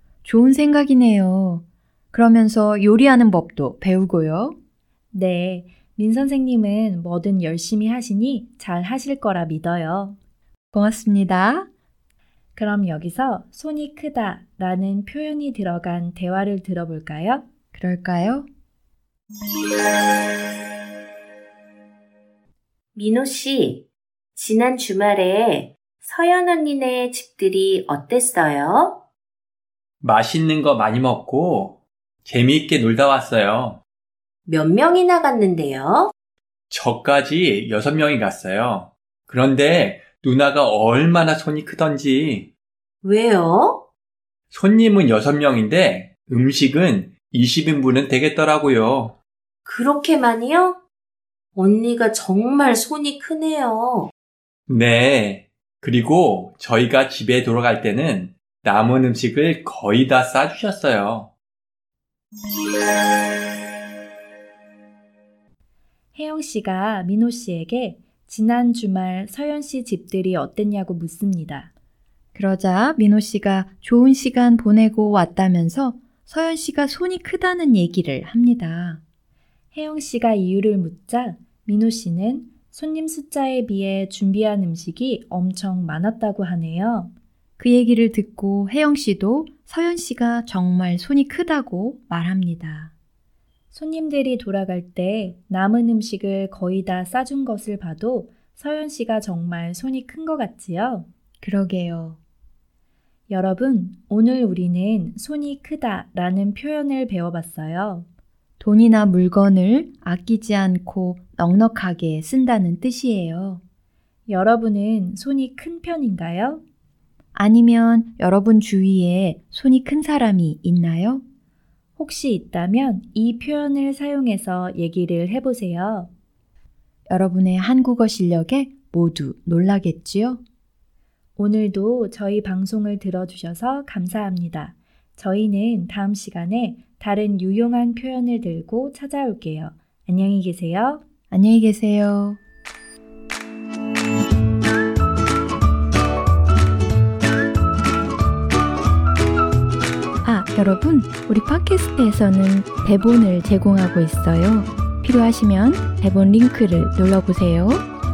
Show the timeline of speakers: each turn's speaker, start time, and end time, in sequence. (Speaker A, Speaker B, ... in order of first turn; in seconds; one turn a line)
Speaker A: 0.2-4.5
Speaker B: 5.1-10.2
Speaker A: 10.7-11.7
Speaker B: 12.5-17.4
Speaker A: 17.7-18.5
Speaker C: 22.9-29.0
Speaker D: 30.0-33.8
Speaker C: 34.5-36.1
Speaker D: 36.7-42.5
Speaker C: 43.0-43.9
Speaker D: 44.5-49.2
Speaker C: 49.6-50.8
Speaker C: 51.5-54.1
Speaker D: 54.7-61.3
Speaker B: 66.1-71.7
Speaker A: 72.3-79.0
Speaker B: 79.7-87.1
Speaker A: 87.6-92.9
Speaker B: 93.7-101.1
Speaker A: 101.4-102.2
Speaker B: 103.3-108.0
Speaker A: 108.6-113.6
Speaker B: 114.3-116.6
Speaker A: 117.3-121.2
Speaker B: 122.0-126.1
Speaker A: 127.1-130.4
Speaker B: 131.4-141.0
Speaker A: 141.3-142.4
Speaker A: 150.2-157.8